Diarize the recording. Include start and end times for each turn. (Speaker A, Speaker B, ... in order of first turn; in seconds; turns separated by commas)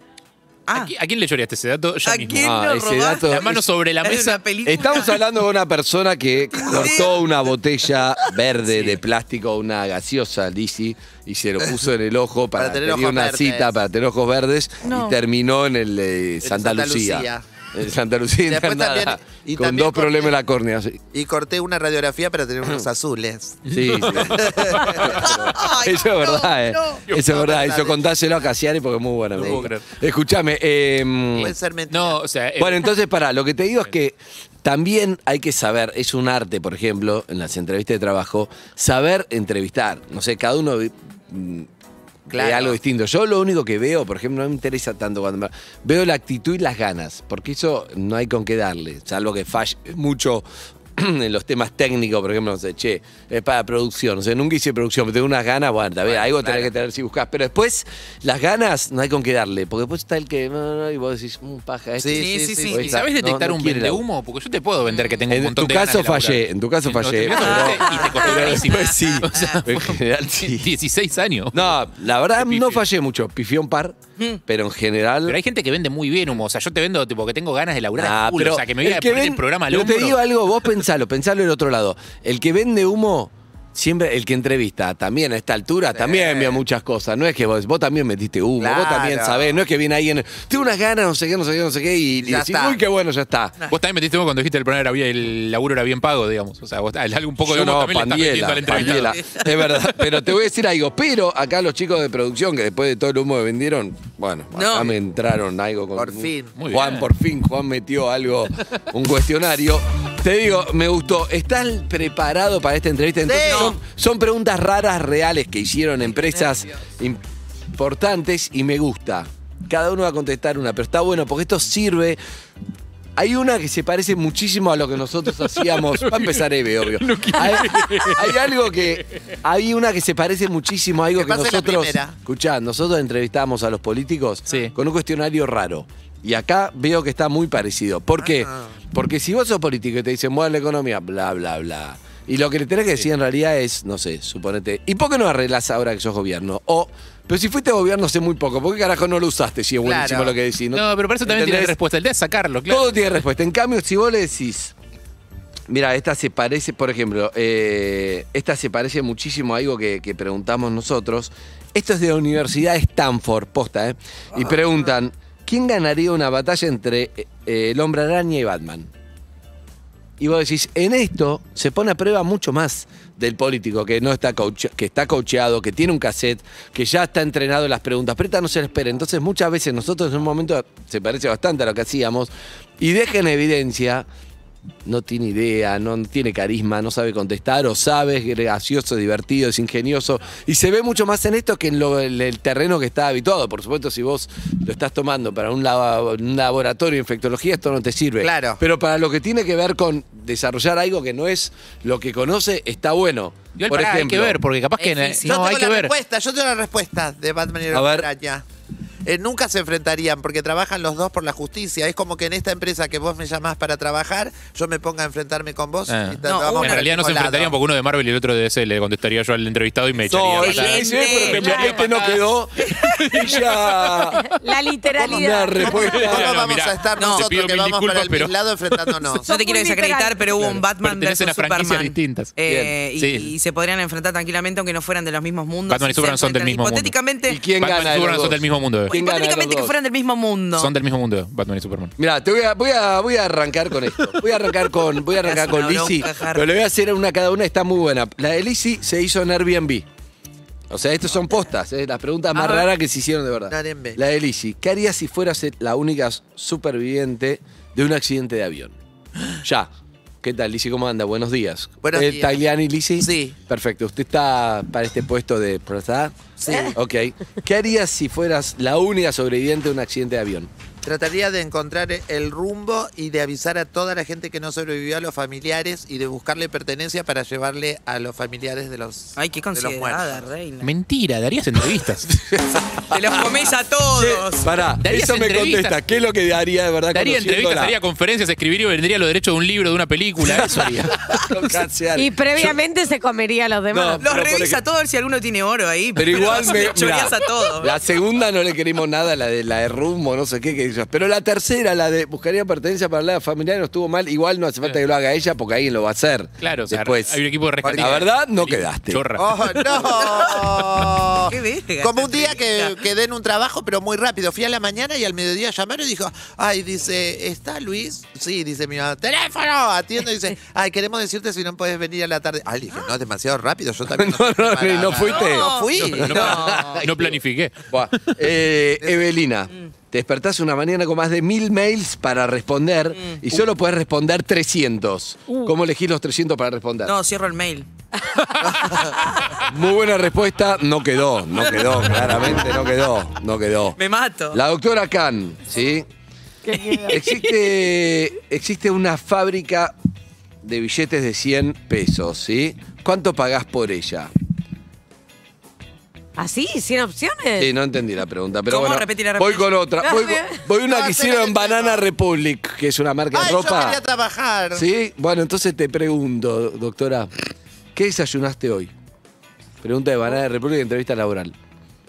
Speaker A: 0.7-0.9, Speaker B: 0.7-2.5, Speaker A: 2.0-3.4, Speaker C: 2.4-3.6, Speaker B: 3.3-4.4, Speaker A: 4.0-5.2, Speaker C: 4.7-21.0, Speaker A: 6.5-7.2, Speaker D: 12.6-13.7, Speaker A: 14.8-15.2, Speaker D: 16.4-17.4, Speaker D: 18.5-20.4, Speaker D: 21.1-25.6, Speaker B: 23.7-25.2, Speaker C: 23.7-31.6, Speaker A: 25.6-27.0, Speaker D: 26.7-28.1, Speaker D: 29.4-29.6, Speaker B: 29.4-29.9, Speaker D: 31.3-32.2, Speaker B: 31.9-32.9, Speaker C: 32.6-41.7, Speaker C: 42.3-64.0, Speaker D: 42.3-42.8, Speaker D: 56.1-56.7, Speaker D: 62.0-63.0, Speaker A: 62.2-63.0, Speaker B: 62.8-71.8, Speaker A: 64.9-65.2, Speaker C: 65.3-70.7, Speaker A: 67.3-69.6, Speaker C: 71.5-75.4, Speaker B: 72.4-72.8, Speaker B: 75.3-80.2, Speaker C: 78.0-93.6, Speaker D: 86.0-86.6, Speaker D: 88.6-89.6, Speaker D: 92.2-92.8, Speaker B: 93.7-99.4, Speaker C: 97.4-117.2, Speaker A: 104.5-104.9, Speaker D: 106.0-106.5, Speaker B: 106.6-107.1, Speaker D: 113.2-113.8, Speaker A: 113.5-113.8, Speaker C: 117.8-122.2, Speaker C: 123.2-151.8, Speaker B: 126.0-126.4, Speaker B: 127.0-128.8, Speaker D: 131.2-132.2, Speaker D: 138.2-138.7, Speaker D: 149.8-150.3, Speaker B: 150.7-153.0, Speaker C: 152.7-154.7, Speaker C: 155.7-168.9, Speaker C: 170.2-184.1, Speaker C: 184.8-204.4, Speaker D: 198.2-198.6, Speaker B: 203.6-205.9, Speaker A: 204.8-205.3, Speaker D: 205.2-208.4, Speaker C: 207.7-208.1, Speaker D: 209.1-217.6, Speaker B: 215.9-222.3, Speaker A: 216.2-217.0, Speaker C: 220.1-224.2, Speaker A: 220.4-221.6, Speaker B: 222.9-224.1, Speaker E: 224.2-225.9, Speaker C: 225.0-226.3, Speaker D: 225.7-229.3, Speaker B: 225.7-229.2, Speaker A: 227.0-227.3, Speaker A: 229.2-237.4, Speaker E: 229.3-230.2, Speaker B: 230.8-232.3, Speaker C: 232.5-232.7, Speaker B: 233.0-233.3, Speaker B: 235.7-236.9, Speaker C: 237.3-239.8, Speaker B: 237.6-238.9, Speaker A: 238.9-240.7, Speaker B: 240.6-241.9, Speaker C: 242.0-249.9, Speaker A: 245.2-246.5, Speaker C: 250.7-258.8, Speaker D: 253.5-254.0, Speaker C: 259.4-259.7, Speaker C: 260.2-266.2, Speaker D: 261.8-262.4, Speaker D: 263.0-263.4, Speaker D: 266.4-266.8, Speaker C: 266.7-270.5, Speaker D: 270.8-280.2, Speaker A: 279.2-280.7, Speaker B: 280.6-282.1, Speaker C: 282.1-287.8, Speaker A: 282.9-284.5, Speaker B: 284.8-285.8, Speaker B: 286.9-291.3, Speaker C: 290.2-292.6, Speaker E: 291.9-294.1, Speaker C: 293.7-294.6, Speaker A: 294.0-297.7, Speaker C: 295.9-307.2, Speaker B: 306.4-310.8, Speaker D: 307.6-308.0, Speaker C: 307.7-309.1, Speaker D: 309.2-326.8, Speaker A: 311.3-312.8, Speaker C: 323.9-327.2, Speaker A: 325.0-326.8, Speaker B: 325.8-327.6, Speaker C: 327.7-336.9, Speaker A: 333.0-333.2, Speaker A: 336.9-337.7, Speaker D: 338.4-338.9, Speaker C: 339.4-343.8, Speaker A: 343.8-344.4, Speaker C: 344.3-345.9, Speaker E: 346.4-347.0, Speaker C: 346.9-349.8, Speaker C: 350.4-354.1, Speaker E: 356.2-357.5, Speaker C: 357.4-363.8, Speaker A: 358.5-359.5, Speaker E: 359.8-360.4, Speaker D: 360.6-361.9, Speaker D: 363.1-364.7, Speaker C: 364.6-367.1, Speaker C: 367.8-368.7, Speaker C: 369.6-371.4